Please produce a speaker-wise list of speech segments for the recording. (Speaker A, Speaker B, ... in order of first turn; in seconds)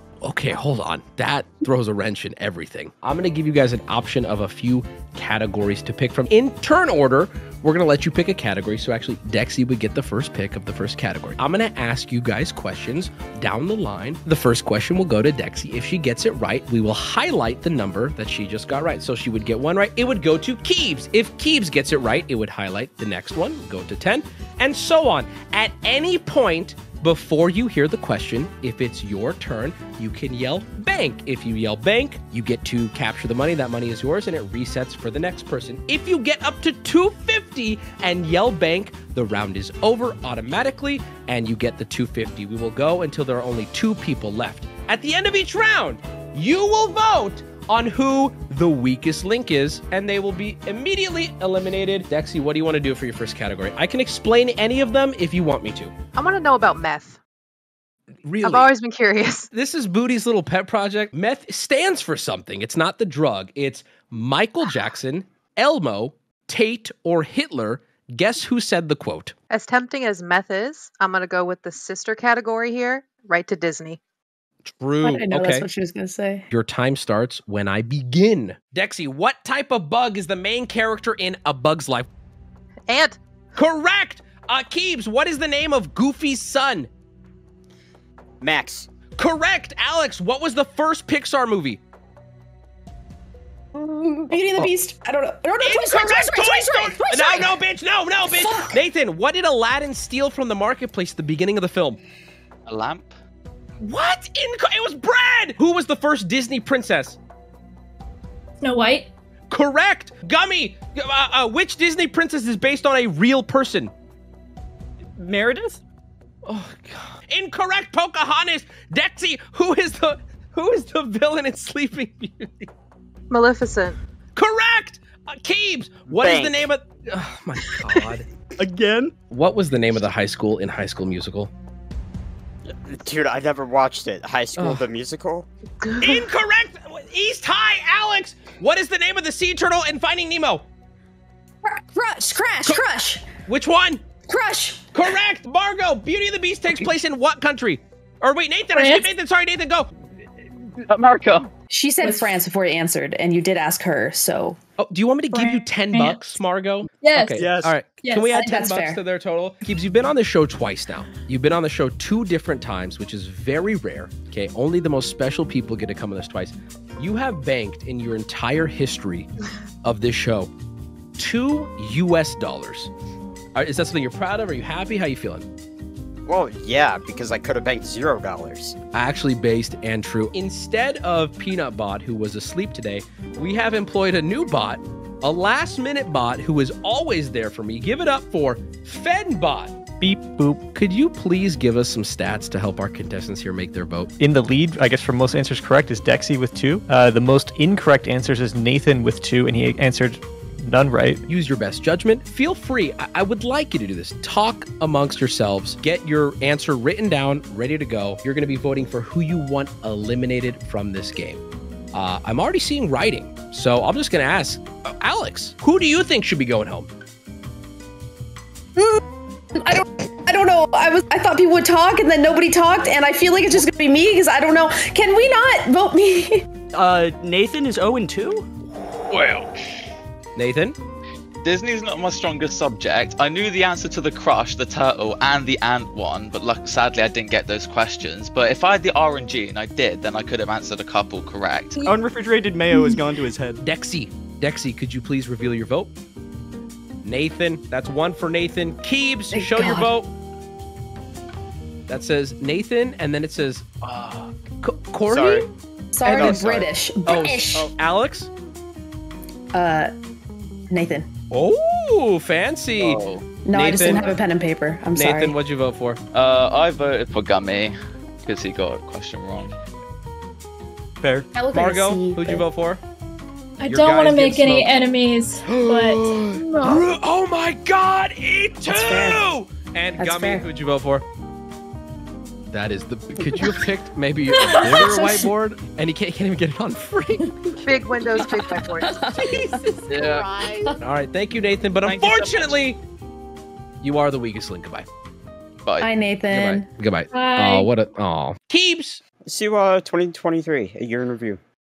Speaker A: 0.2-55.9, 58.2-58.7, 59.5-69.3, 74.6-75.7, 76.5-82.1, 83.5-86.9, 89.2-91.8, 95.6-102.0, 103.8-107.2, 109.5-113.9, 116.5-122.7, 124.3-128.3, 129.3-131.5, 134.6-134.8, 136.0-140.6, 143.4-144.0, 144.9-149.9, 154.8-169.3, 169.8-170.5, 171.2-172.9, 173.5-175.5, 178.9-189.7, 190.7-194.1, 201.3-211.4, 211.9-216.9, 230.3-230.8, 243.6-245.9, 247.0-250.1, 251.9-255.5, 256.0-256.5, 257.1-258.3, 261.3-264.1, 264.9-266.0, 271.5-272.8, 273.6-274.7, 275.4-281.0, 282.5-287.6, 289.1-290.2, 290.8-292.8, 293.8-294.9, 296.3-299.0
Speaker B: 56.1-57.2, 58.4-59.5, 69.5-74.0, 82.9-83.2, 123.3-124.0, 135.8-136.2, 287.6-289.0
Speaker C: 75.0-76.5, 93.7-97.6, 98.2-98.8, 141.6-143.3, 144.3-145.1, 151.7-154.6, 158.3-159.0, 219.5-226.4, 249.3-249.9, 255.9-257.7, 259.5-259.9, 260.7-261.1, 263.4-265.4, 271.3-272.4, 278.6-279.3, 280.0-280.5, 283.2-283.6, 284.5-285.3, 288.2-289.7, 295.8-296.7
Speaker D: 88.4-88.9, 126.1-126.7, 132.8-135.5, 176.2-178.7, 255.1-255.5, 256.0-256.7, 299.2-301.4
Speaker E: 102.7-103.2, 150.8-151.5, 229.1-229.4, 231.4-241.8, 262.8-263.2, 266.1-269.5, 289.9-290.8, 291.8-292.6, 295.6-295.9
Speaker F: 108.6-109.1, 148.7-149.1, 152.0-152.4, 155.3-156.4, 157.0-158.5, 242.7-243.0, 273.6-276.9, 284.3-284.8, 297.1-297.7
Speaker G: 115.2-115.8, 128.6-129.1, 157.4-157.8, 226.7-228.5, 241.8-243.6, 271.0-271.3
Speaker H: 190.0-190.6, 194.2-201.2